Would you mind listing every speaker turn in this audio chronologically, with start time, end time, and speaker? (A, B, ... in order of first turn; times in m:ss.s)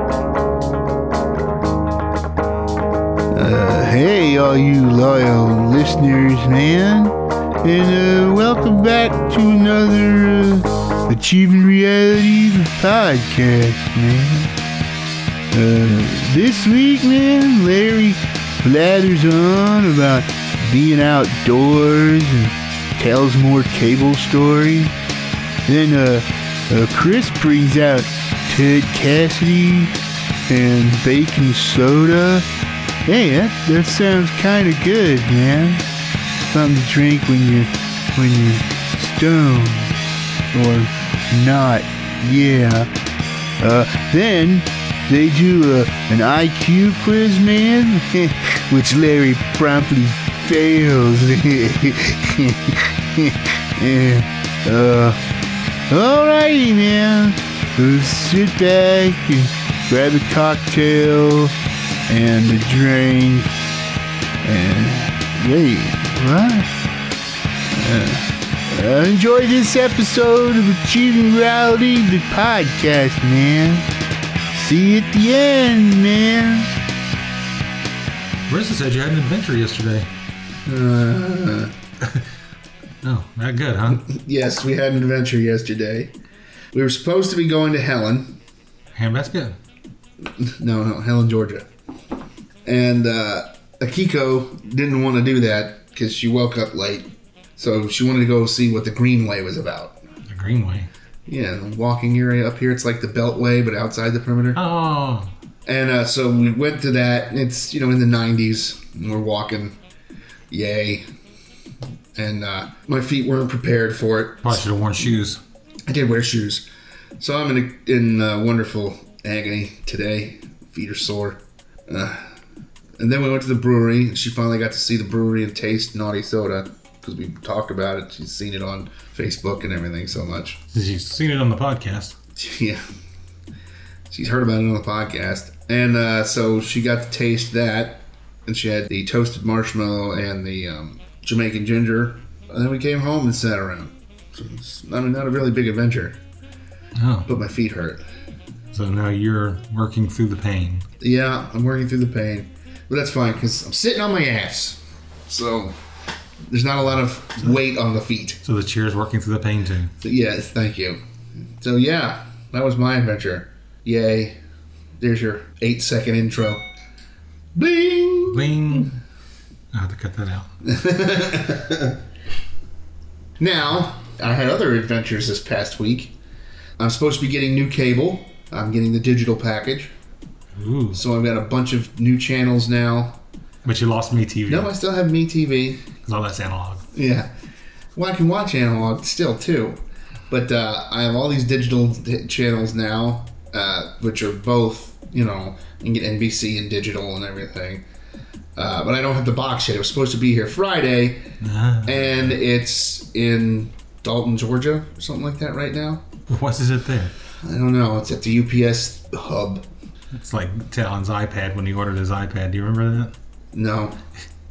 0:03.3-0:14.5 A
0:15.5-0:24.9 A
0:25.7-0:29.9 A
0:30.5-0:32.5 A
0:33.0-0:35.8 A
0:36.5-0:40.0 A
0:40.5-0:42.9 A
0:43.6-0:55.2 A
0:55.9-1:01.5 A
1:02.1-1:03.5 A
1:04.4-1:06.7 A
1:07.7-1:13.9 A
1:14.5-1:16.7 A
1:18.5-1:20.1 B
1:20.6-1:21.7 C
1:23.0-1:24.0 B
1:23.9-1:26.1 C
1:26.7-1:28.4 C
1:28.9-1:29.6 B
1:30.4-1:31.7 C
1:32.6-1:40.0 C
1:40.3-1:40.9 B
1:41.3-1:44.6 C
1:44.5-1:45.3 B
1:45.6-1:49.8 C
1:50.5-1:51.0 C
1:52.2-1:54.6 C
1:54.4-1:55.4 B
1:55.8-1:56.7 C
1:57.2-2:02.3 C
2:03.0-2:10.6 C
2:10.7-2:12.2 B
2:12.4-2:12.8 C
2:14.1-2:26.2 C
2:27.0-2:27.3 B
2:27.3-2:28.0 C
2:28.7-2:30.8 B
2:31.0-2:35.8 C
2:36.5-2:38.4 C
2:38.4-2:39.9 B
2:40.0-2:44.4 C
2:45.0-2:46.6 C
2:47.5-2:48.9 C
2:48.3-2:48.9 B
2:49.7-2:50.5 B
2:50.6-2:52.0 C
2:53.4-2:56.1 C
2:56.8-2:59.9 C
3:00.6-3:01.0 B
3:00.9-3:03.2 C
3:03.6-3:04.7 B
3:04.5-3:05.8 C
3:06.0-3:06.8 B
3:06.9-3:07.3 C
3:07.9-3:17.8 C
3:18.6-3:21.3 C
3:21.4-3:22.4 B
3:21.8-3:26.0 C
3:26.3-3:27.1 B
3:27.4-3:29.6 C
3:30.1-3:33.1 B
3:33.5-3:34.0 C